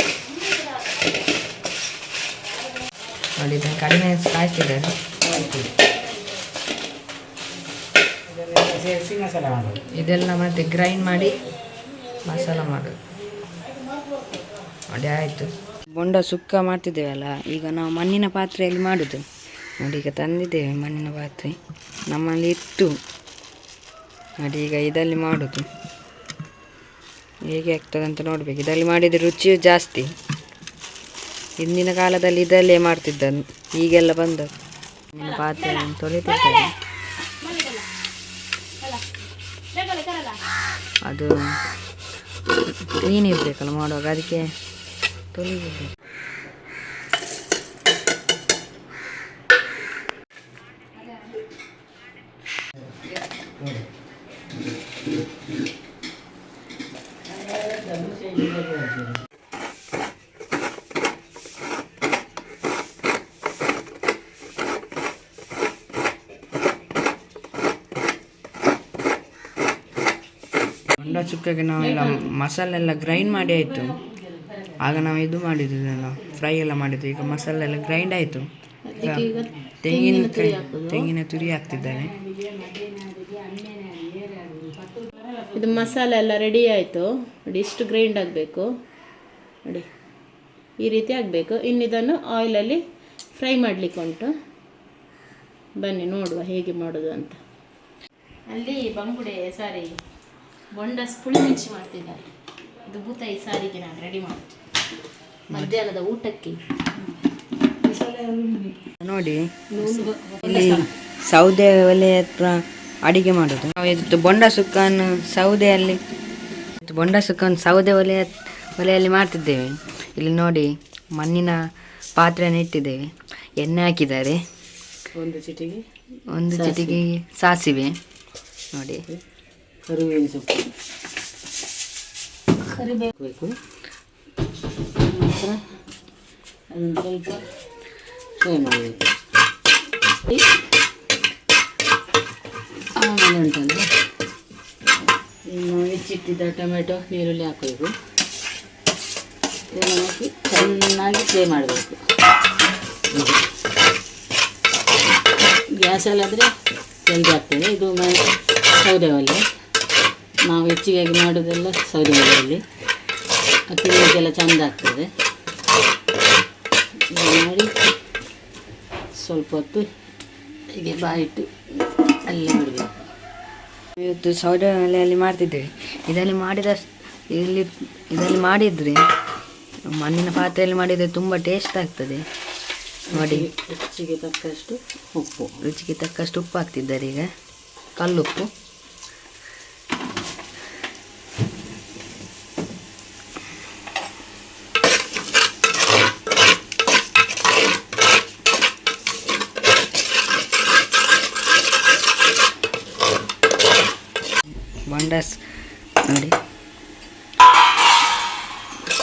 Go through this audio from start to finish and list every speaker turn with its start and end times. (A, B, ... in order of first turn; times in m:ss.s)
0:00.5-0:00.8 A
0:03.4-0:04.9 B
0:05.2-0:05.7 C
0:08.3-0:09.9 C
0:09.9-0:11.4 B
0:12.2-0:13.0 B
0:14.9-0:19.2 B
0:19.8-0:23.0 B
0:24.4-0:25.7 B
0:27.5-0:30.1 B
0:31.6-0:34.5 B
0:35.1-0:36.7 B
0:35.2-0:35.9 A
0:37.4-0:37.9 A
0:39.7-0:40.4 A
0:41.0-0:41.3 B
0:42.8-0:44.5 B
0:45.3-0:45.9 B
0:57.3-0:59.2 C
1:11.0-1:14.0 B
1:11.8-1:12.2 A
1:14.1-1:14.7 C
1:14.8-1:18.5 B
1:18.8-1:21.1 A
1:19.0-1:19.3 B
1:19.1-1:19.5 C
1:19.8-1:22.2 B
1:21.8-1:25.6 C
1:25.5-1:28.7 A
1:30.8-1:32.8 A
1:33.4-1:34.3 A
1:35.8-1:37.4 A
1:38.5-1:39.9 A
1:40.7-1:42.3 A
1:42.9-1:44.6 A
1:45.5-1:45.8 B
1:45.5-1:46.6 A
1:47.8-1:48.8 C
1:49.0-1:56.0 B
1:49.8-1:50.9 C
1:56.8-2:01.6 B
2:02.2-2:04.4 B
2:05.1-2:05.8 C
2:06.3-2:08.0 B
2:06.5-2:07.0 C
2:08.7-2:09.0 B
2:09.9-2:10.5 C
2:13.0-2:13.5 C
2:15.0-2:15.6 C
2:16.7-2:17.4 C
2:18.4-2:19.0 C
2:23.0-2:23.9 C
2:25.5-2:27.9 C
2:29.7-2:32.0 C
2:33.1-2:33.4 C
2:35.7-2:36.5 C
2:37.0-2:39.4 C
2:40.4-2:42.6 C
2:43.7-2:45.1 C
2:47.1-2:47.7 C
2:49.2-2:49.9 C
2:50.7-2:51.5 C
2:52.2-2:52.9 C
2:54.0-2:59.0 B
2:59.9-3:02.3 B
3:03.1-3:05.6 C
3:03.1-3:03.5 B
3:05.6-3:07.3 B
3:08.0-3:08.5 B
3:24.9-3:25.4 B
3:26.0-3:26.4 B